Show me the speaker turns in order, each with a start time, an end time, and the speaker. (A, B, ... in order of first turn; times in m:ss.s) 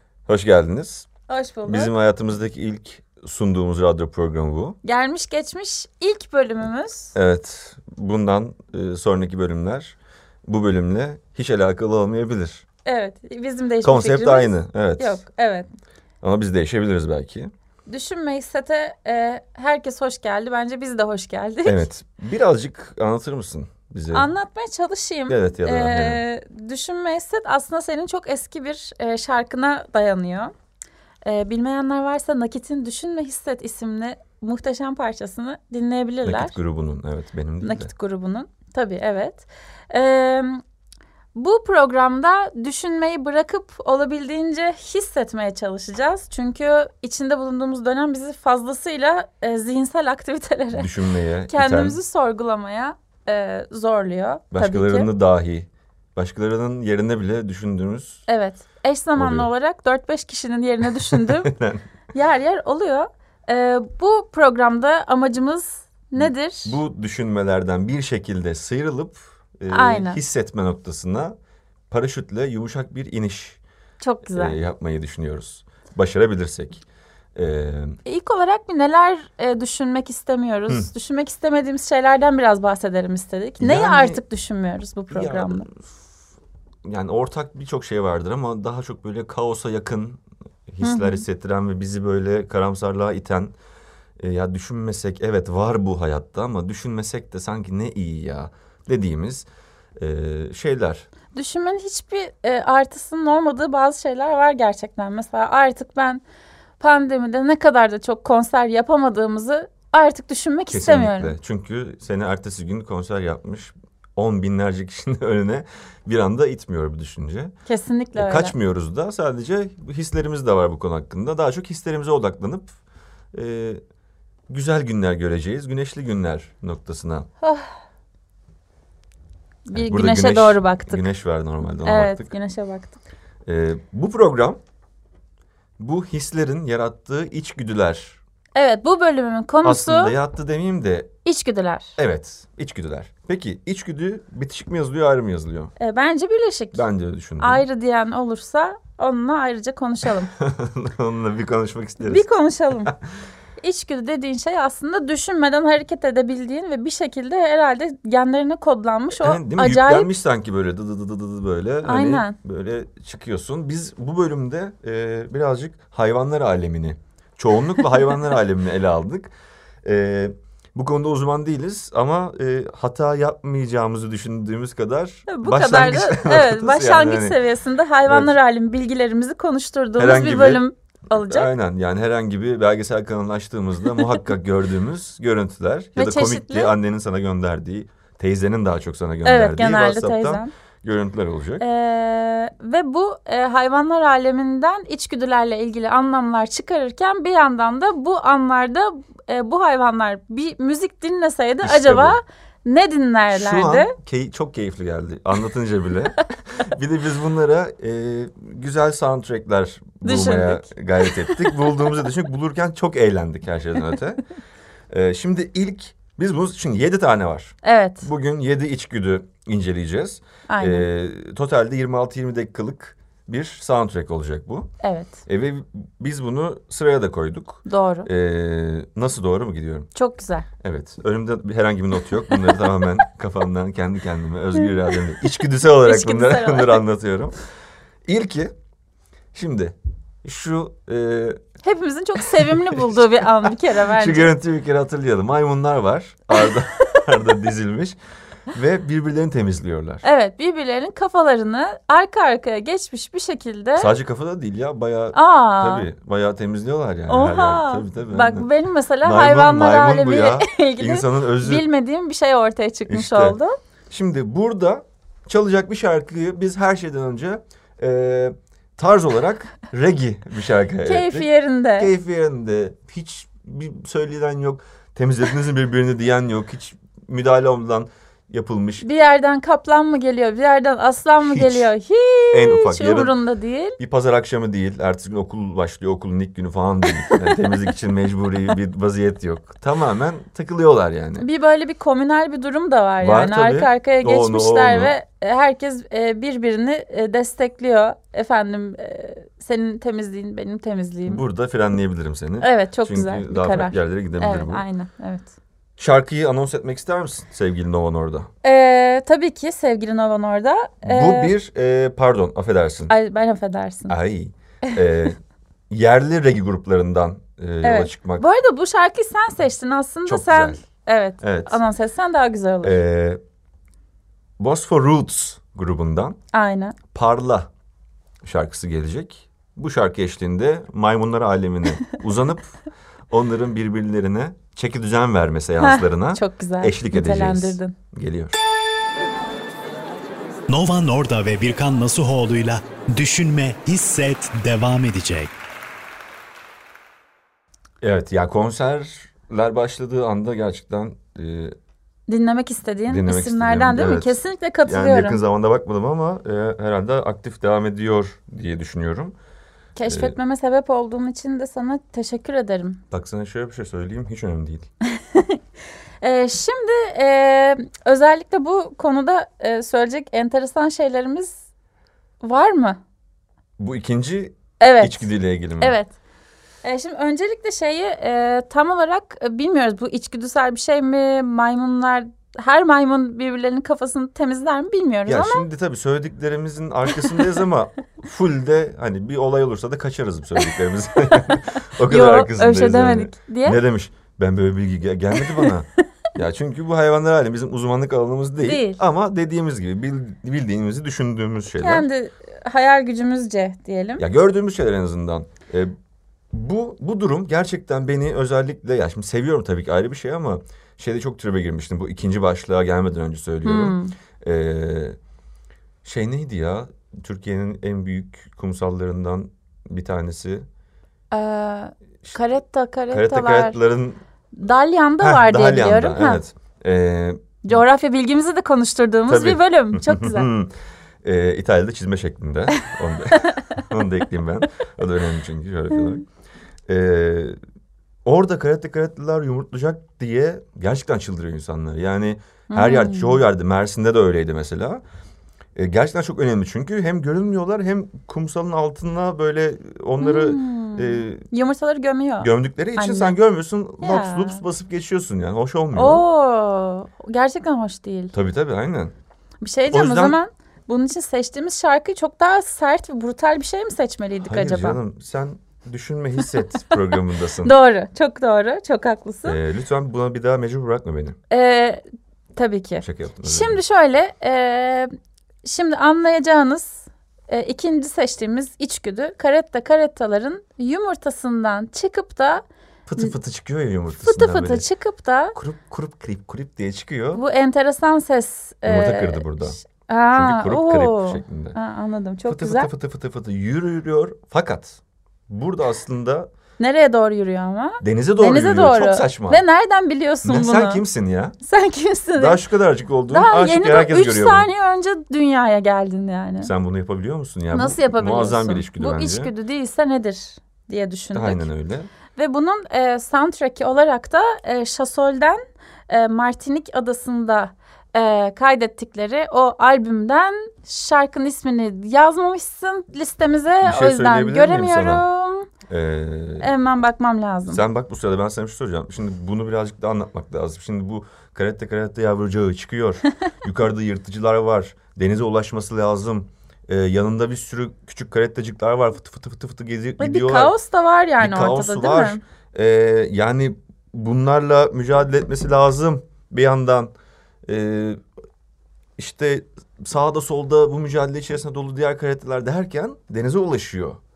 0:00.3-0:01.1 A
0:01.3-0:01.9 B
0:01.6-0:04.8 A
0:04.8-0:07.1 B
0:07.1-0:12.6 A
0:12.8-0:15.7 B
0:13.8-0:15.2 A
0:16.2-0:17.5 A
0:17.9-0:21.8 B
0:21.6-0:24.3 A
0:24.1-0:30.5 B
0:25.3-0:26.2 A
0:31.2-0:36.5 B
0:36.2-0:37.9 A
0:37.6-0:40.6 B
0:41.3-0:50.9 B
0:50.7-0:52.0 A
0:51.5-0:55.1 B
0:54.5-0:58.2 A
0:58.3-1:01.5 B
0:59.2-0:59.5 A
1:01.0-1:01.8 A
1:02.1-1:06.8 B
1:06.2-1:11.3 A
1:09.7-1:10.2 B
1:11.9-1:13.6 A
1:14.0-1:14.6 B
1:14.2-1:16.8 A
1:17.3-1:18.0 A
1:18.0-1:25.7 B
1:23.6-1:24.2 A
1:25.1-1:26.0 A
1:26.8-1:33.5 A
1:30.8-1:31.2 B
1:34.2-1:41.1 A
1:41.3-1:46.2 B
1:46.8-1:51.3 B
1:50.7-1:57.6 A
1:57.7-1:58.5 B
1:58.2-2:02.8 A
2:03.3-2:03.8 A
2:04.5-2:07.3 A
2:07.4-2:07.7 B
2:09.7-2:11.1 B
2:09.7-2:12.3 A
2:11.8-2:13.0 B
2:13.4-2:14.6 A
2:15.8-2:18.2 A
2:18.5-2:20.1 B
2:19.6-2:21.1 A
2:21.2-2:22.0 B
2:22.0-2:25.7 A
2:25.8-2:26.8 B
2:26.7-2:27.6 A
2:27.4-2:30.3 B
2:30.3-2:32.2 A
2:32.0-2:32.9 B
2:33.6-2:40.1 B
2:39.2-2:49.3 A
2:41.8-2:42.4 B
2:49.8-2:57.4 A
2:55.3-3:01.5 B
2:58.0-2:58.4 A
3:00.0-3:11.6 A
3:06.0-3:06.7 B
3:09.2-3:10.5 B
3:11.6-3:23.9 B
3:21.6-3:22.2 A
3:23.3-3:34.2 A
3:30.0-3:31.8 B
3:34.9-3:44.7 A
3:37.6-3:38.1 B
3:40.5-3:40.8 B
3:44.8-3:45.2 B
3:45.3-3:49.9 A
3:47.6-3:48.1 B
3:49.9-3:50.5 B
3:50.6-3:57.4 A
3:55.8-3:56.8 B
3:58.0-3:58.5 A
3:59.3-4:01.4 A
4:01.6-4:04.3 B
4:02.2-4:08.0 A
4:06.3-4:07.0 B
4:08.5-4:10.0 A
4:10.0-4:13.9 B
4:13.8-4:18.5 A
4:15.1-4:15.8 B
4:17.1-4:23.5 B
4:19.0-4:21.6 A
4:22.9-4:23.4 A
4:23.9-4:38.8 A
4:30.8-4:31.9 B
4:38.8-4:43.8 B
4:41.2-4:41.7 A
4:42.3-4:43.1 A
4:43.8-4:51.2 A
4:51.2-5:01.2 B
4:53.0-4:54.9 A
5:01.0-5:04.6 A
5:02.4-5:05.3 B
5:05.8-5:08.3 A
5:08.4-5:11.3 B
5:10.8-5:12.9 A
5:12.9-5:13.9 B
5:13.9-5:15.2 A
5:15.7-5:18.2 A
5:17.6-5:22.8 B
5:20.0-5:20.6 A
5:21.2-5:21.6 A
5:22.6-5:23.2 A
5:24.4-5:26.2 A
5:26.3-5:26.8 B
5:26.9-5:27.5 A
5:28.2-5:32.6 A
5:33.1-5:38.3 A
5:35.6-5:37.7 B
5:40.5-5:45.3 C
5:47.8-5:51.5 A
5:52.1-5:55.2 B
5:52.9-5:59.1 A
5:59.8-6:02.8 B
5:59.8-6:00.2 A
6:02.9-6:04.7 A
6:05.0-6:05.4 B
6:06.0-6:11.4 B
6:12.2-6:12.8 B
6:13.6-6:15.8 A
6:14.6-6:15.9 B
6:16.6-6:25.4 B
6:25.0-6:41.9 A
6:31.1-6:33.6 B
6:35.2-6:35.5 B
6:38.4-6:38.8 B
6:41.6-6:44.0 B
6:44.0-6:45.7 A
6:46.3-6:55.0 A
6:53.4-6:53.9 B
6:55.8-7:00.4 A
7:01.1-7:03.6 B
7:02.9-7:04.0 A
7:04.4-7:06.2 B
7:05.0-7:07.6 A
7:07.4-7:10.3 B
7:09.1-7:16.0 A
7:12.6-7:13.6 B
7:16.7-7:17.4 A
7:18.0-7:24.8 A
7:22.5-7:23.2 B
7:25.5-7:31.2 A
7:30.0-7:33.2 B
7:32.2-7:36.0 A
7:33.8-7:34.4 B
7:35.7-7:38.1 B
7:38.1-7:38.9 A
7:39.4-7:44.8 B
7:39.7-7:40.2 A
7:44.2-7:47.6 A
7:46.7-7:49.4 B
7:49.2-7:51.2 A
7:51.3-7:51.8 B
7:52.4-7:54.9 B
7:52.8-7:53.6 A
7:55.4-8:02.4 B
8:02.8-8:04.6 A
8:03.9-8:05.4 B
8:05.3-8:07.2 A
8:07.1-8:12.7 B
8:08.6-8:09.6 A
8:10.1-8:11.6 A
8:12.3-8:16.3 A
8:16.6-8:20.8 B
8:17.8-8:19.4 A
8:20.2-8:21.4 A
8:21.4-8:22.4 B
8:22.2-8:24.5 A
8:23.1-8:26.5 B
8:26.4-8:29.3 A
8:27.5-8:31.5 B
8:31.1-8:31.9 A
8:32.1-8:45.5 B
8:43.6-8:45.0 A
8:45.7-8:46.5 A
8:46.4-8:47.6 B
8:47.5-9:00.5 A
9:00.0-9:02.2 B
9:01.2-9:06.9 A
9:07.4-9:08.0 A
9:09.0-9:14.0 A